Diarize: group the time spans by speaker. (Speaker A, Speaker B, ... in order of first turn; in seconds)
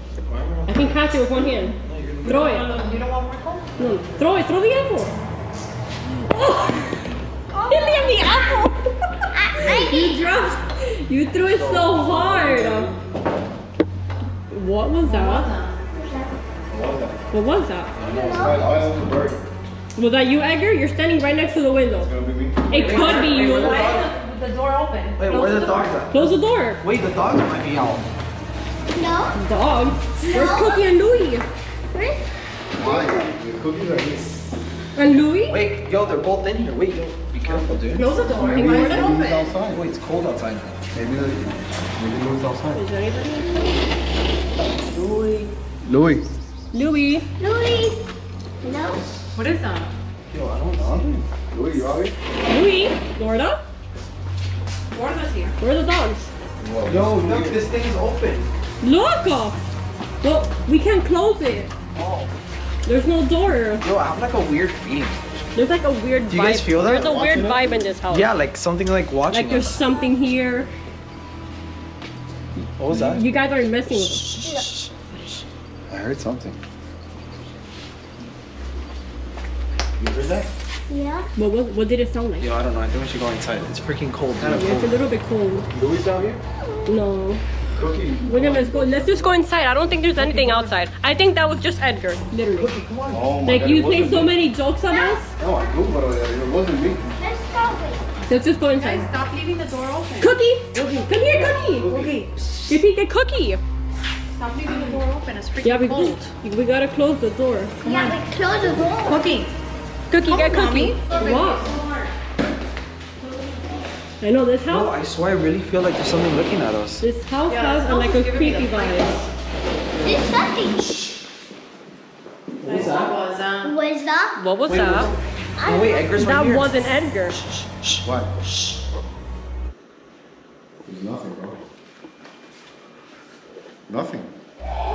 Speaker A: 0.3-0.9, 1.8-2.5, 22.7-24.1, 25.2-28.1, 35.5-38.1, 39.7-40.7, 50.3-51.2, 56.9-58.5, 62.0-62.3, 63.8-65.4, 66.3-67.1, 68.1-69.8, 72.8-73.2, 74.2-74.9, 82.4-85.0, 92.6-93.3, 114.7-117.0, 122.6-123.1, 124.6-126.7, 127.5-128.0
Speaker B: 0.7-2.7, 3.8-5.2, 6.2-7.0, 7.6-8.9, 9.6-12.9, 14.5-15.5, 17.3-17.9, 20.0-22.1, 22.7-23.8, 26.1-26.8, 29.4-31.5, 35.0-35.6, 38.2-39.2, 42.7-43.6, 46.7-47.3, 52.5-53.6, 55.6-56.3, 58.8-59.6, 60.2-61.7, 62.9-63.9, 65.5-68.3, 69.3-70.7, 72.9-74.4, 81.4-82.5, 84.6-85.7, 86.9-87.4, 88.2-92.7, 93.5-95.3, 98.3-99.1, 100.2-101.9, 102.7-103.6, 105.6-107.9, 110.1-111.7, 114.2-115.0, 117.0-119.2, 124.4-125.1, 126.1-127.4
Speaker C: 2.2-3.8, 15.0-15.8, 22.9-25.9, 37.9-39.5, 49.4-49.9, 54.9-55.6, 90.2-90.7, 98.8-100.4, 101.1-102.6, 104.3-106.3, 107.8-108.2, 109.0-109.5, 110.3-112.1, 117.5-119.3, 122.6-123.8
Speaker D: 7.5-8.3, 9.4-10.2, 15.9-16.3, 18.0-18.6, 28.9-29.4, 30.2-30.8, 31.9-32.2, 32.8-33.3, 47.4-48.0, 48.6-49.0, 74.4-74.7, 80.9-81.3, 94.9-95.2, 97.2-98.1, 107.8-109.4, 120.0-120.8, 123.6-124.4, 125.6-126.1
Speaker E: 11.5-12.9, 16.7-17.2, 18.0-19.5, 21.9-22.8, 32.8-34.4, 38.4-39.8, 40.9-42.8, 44.9-46.2, 50.8-52.1, 56.6-57.6, 66.9-67.7, 75.9-76.6, 80.0-80.5, 84.4-84.8, 85.7-86.4, 87.7-89.3, 93.1-94.4, 95.4-97.1, 101.6-102.2, 128.0-128.3, 130.9-131.6, 133.9-134.3